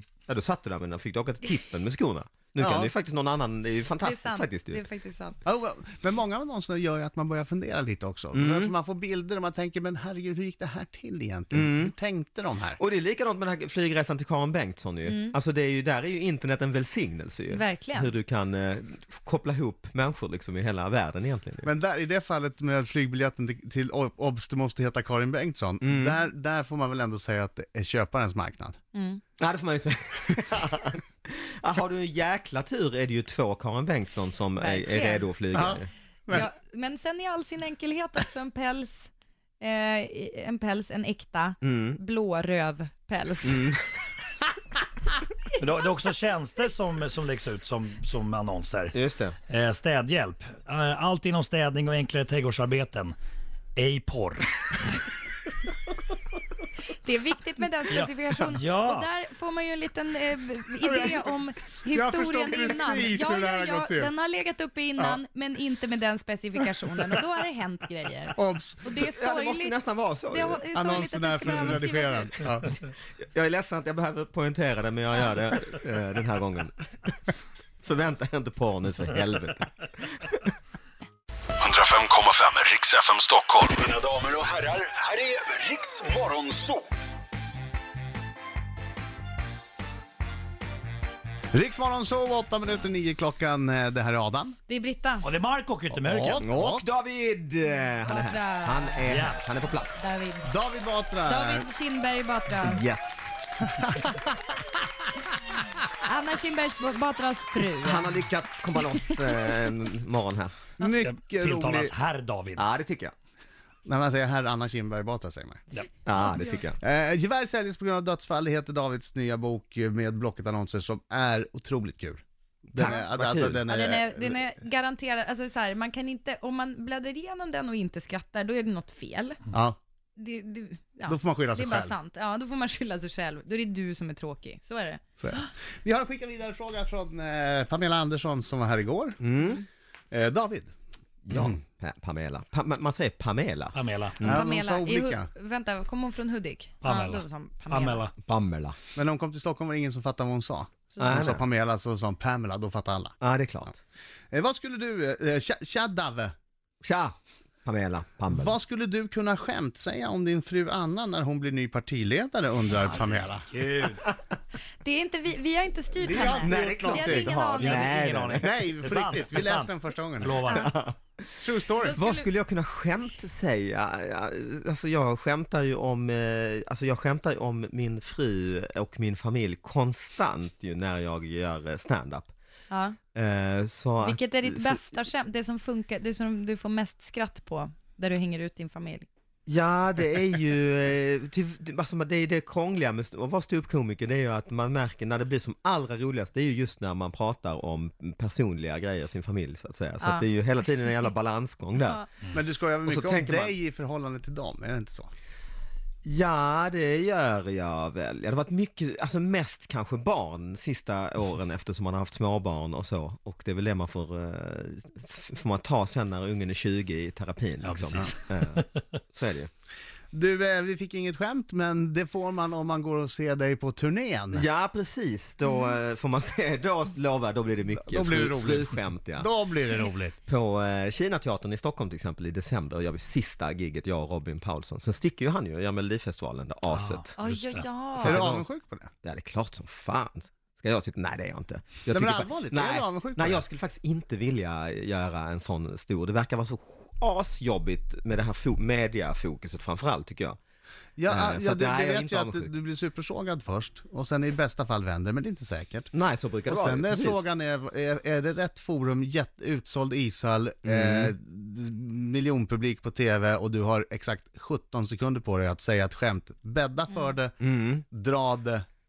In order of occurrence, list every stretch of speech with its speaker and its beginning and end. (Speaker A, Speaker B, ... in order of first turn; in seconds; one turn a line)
Speaker A: 0.3-4.8
Speaker B: 2.6-2.9
Speaker B: 4.0-5.4
Speaker C: 5.4-12.8
Speaker A: 8.3-8.7
Speaker A: 11.5-11.9
Speaker A: 12.8-21.7
Speaker B: 15.1-15.3
Speaker B: 17.5-18.1
Speaker C: 21.6-28.8
Speaker A: 25.8-26.2
Speaker B: 28.9-29.2
Speaker A: 29.4-35.9
Speaker B: 34.6-35.2
Speaker C: 35.5-36.4
Speaker B: 36.3-43.7
Speaker A: 41.6-42.0
Speaker A: 43.4-43.8
Speaker D: 45.5-49.0
Speaker A: 48.9-49.4
Speaker D: 49.5-53.1
Speaker D: 53.7-54.5
Speaker B: 57.0-72.8
Speaker D: 57.9-59.1
Speaker C: 60.8-61.3
Speaker C: 61.9-64.1
Speaker C: 68.3-68.9
Speaker A: 68.8-70.6
Speaker C: 70.7-72.7
Speaker A: 73.2-77.2
Speaker A: 77.8-80.5
Speaker E: 81.7-84.0
Speaker D: 83.7-86.7
Speaker E: 85.5-86.2
Speaker C: 91.5-94.6
Speaker B: 94.7-95.3
Speaker D: 95.2-96.5
Speaker C: 95.9-96.8
Speaker A: 96.4-100.1
Speaker B: 98.0-99.0
Speaker D: 99.0-99.4
Speaker B: 100.0-100.5
Speaker C: 100.4-101.7
Speaker B: 101.2-102.8
Speaker A: 102.6-103.4
Speaker C: 103.8-104.2
Speaker B: 106.0-108.1
Speaker A: 107.8-110.5
Speaker B: 108.8-109.5
Speaker C: 110.8-111.9
Speaker D: 110.8-112.6
Speaker A: 112.5-113.1
Speaker C: 113.8-115.6
Speaker A: 116.0-116.8
Speaker B: 116.2-116.6
Speaker C: 116.8-124.4
Speaker A: 122.7-123.6
Speaker B: 123.7-129.4
Speaker C: 129.5-129.8
Speaker B: 130.2-135.5
Speaker C: 131.1-131.9
Speaker C: 135.2-139.2
Speaker A: 139.2-139.6
Speaker C: 140.1-140.7
Speaker A: 141.2-144.4
Speaker D: 143.7-144.2
Speaker C: 144.2-145.3
Speaker B: 144.3-148.1
Speaker D: 146.8-148.1
Speaker A: 148.2-148.8
Speaker C: 148.9-153.2
Speaker B: 150.9-151.2
Speaker A: 151.0-151.4
Speaker A: 153.2-153.8
Speaker C: 154.3-156.3
Speaker A: 156.8-158.6
Speaker C: 158.3-163.5
Speaker D: 162.8-164.0
Speaker B: 164.8-167.9
Speaker C: 166.0-167.3
Speaker A: 166.2-168.5
Speaker D: 167.6-170.7
Speaker C: 168.4-170.5
Speaker B: 170.4-170.8
Speaker A: 170.5-171.0
Speaker C: 171.4-172.0
Speaker B: 171.8-172.2
Speaker A: 171.9-182.3
Speaker B: 182.7-183.0
Speaker A: 183.1-184.9
Speaker B: 184.0-189.1
Speaker A: 189.4-202.0
Speaker B: 200.0-200.2
Speaker B: 201.8-202.1
Speaker C: 202.3-205.1
Speaker A: 202.8-203.6
Speaker A: 206.0-219.5
Speaker D: 217.6-218.8
Speaker C: 220.1-224.4
Speaker A: 224.3-229.3
Speaker B: 225.4-225.7
Speaker C: 227.7-230.2
Speaker A: 230.3-237.1
Speaker D: 236.7-237.7
Speaker B: 237.2-238.2
Speaker A: 238.0-238.4
Speaker C: 238.0-238.9
Speaker A: 239.0-250.4
Speaker C: 241.9-243.4
Speaker C: 251.0-255.9
Speaker A: 251.1-252.5
Speaker A: 255.9-257.2
Speaker C: 256.5-268.6
Speaker A: 260.6-261.1
Speaker A: 267.4-267.8